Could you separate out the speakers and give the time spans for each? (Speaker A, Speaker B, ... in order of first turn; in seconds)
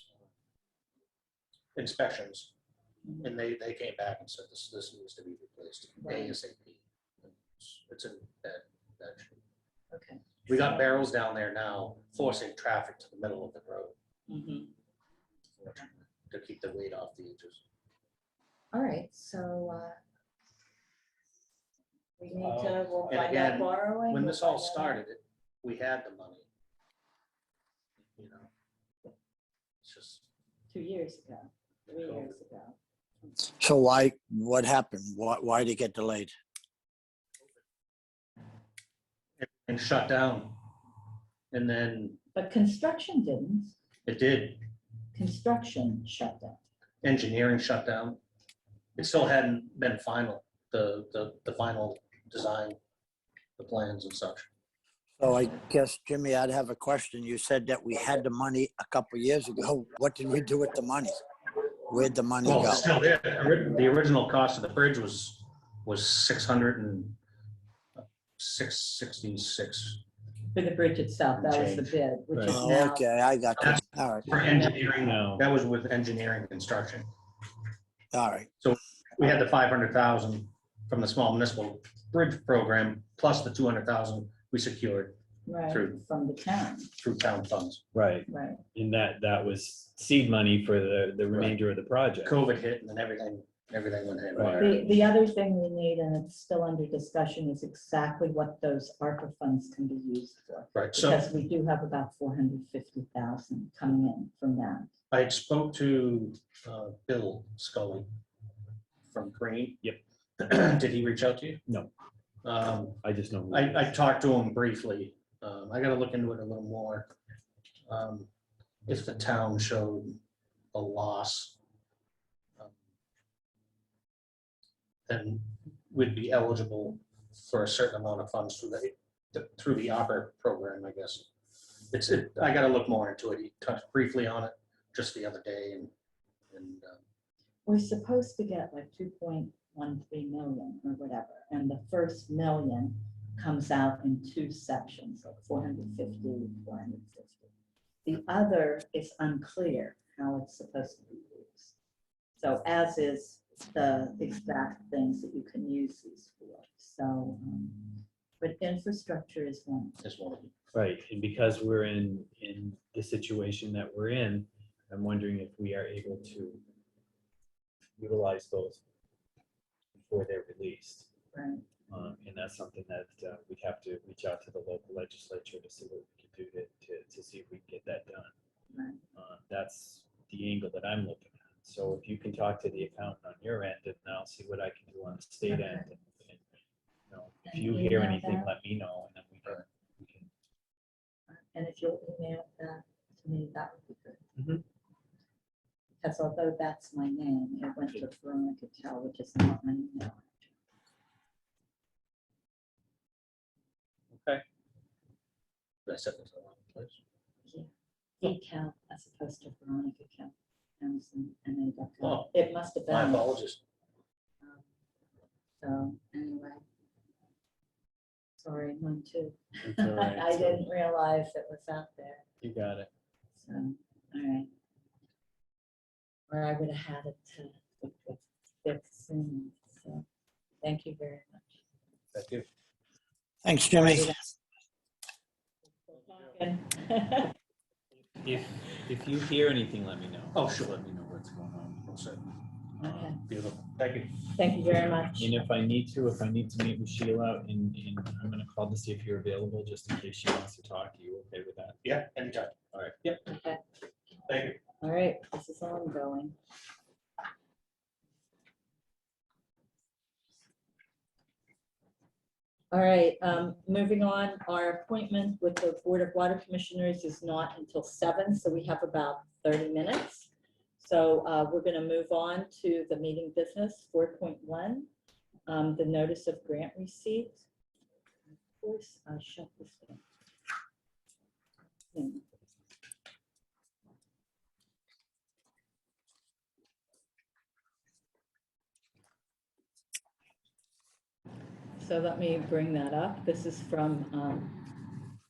Speaker A: 1.8-2.5, 3.2-9.4, 10.5-13.9, 15.6-17.6, 23.1-26.5, 28.2-28.5, 29.8-30.2, 39.4-40.6, 41.5-42.2, 44.1-44.6, 47.0-48.2, 49.0-52.8, 53.6-54.5, 62.4-67.2, 68.0-70.0, 71.4-72.0, 73.6-77.1, 78.6-85.2, 85.7-86.0, 87.0-87.8, 91.3-91.6, 92.2-94.9, 100.7-101.2, 105.1-108.1, 109.1-109.8, 110.4-111.6, 112.4-117.1, 117.9-118.3, 118.9-120.2, 120.7-121.6, 125.1-131.3, 131.9-135.9, 136.5-137.0, 160.0-160.5, 205.9-207.0, 212.0-212.3, 212.9-213.6, 240.3-240.8, 241.8-242.2, 243.2-244.3, 251.8-253.2, 254.3-254.6
Speaker B: 6.0-6.4, 9.9-10.8, 14.3-14.7, 18.7-20.0, 22.2-25.0, 30.7-32.8, 42.4-43.8, 45.1-46.6, 70.5-73.1, 73.6-74.8, 85.5-86.9, 88.3-88.6, 94.6-104.9, 137.7-147.5, 148.1-151.7, 152.4-160.0, 171.3-171.7, 178.7-179.0, 185.5-185.8, 187.5-188.5, 191.3-194.2, 196.0-200.5, 208.2-213.3, 215.6-216.6, 218.4-222.2, 223.4-224.5, 226.3-230.1, 230.6-231.6, 233.7-234.3, 235.9-237.3, 242.8-243.2, 244.3-245.3, 253.2-253.6, 254.8-256.4, 262.7-274.9, 275.5-277.5, 278.6-280.0, 281.9-282.2, 291.8-294.7
Speaker C: 22.4-23.0, 72.3-72.6, 75.0-75.5, 87.9-92.4, 94.3-94.7, 111.7-111.9, 113.0-113.9, 160.7-166.6, 168.0-168.8, 170.0-171.1, 171.9-178.3, 179.2-186.4, 187.1-190.3, 194.4-194.6, 204.1-204.4, 219.6-220.7, 222.4-222.9, 232.1-232.5, 238.2-241.9, 242.8-243.2, 245.2-251.8, 252.7-253.0
Speaker D: 33.6-36.3, 55.2-61.2, 61.9-62.9, 72.5-74.4, 78.1-78.5, 233.4-234.2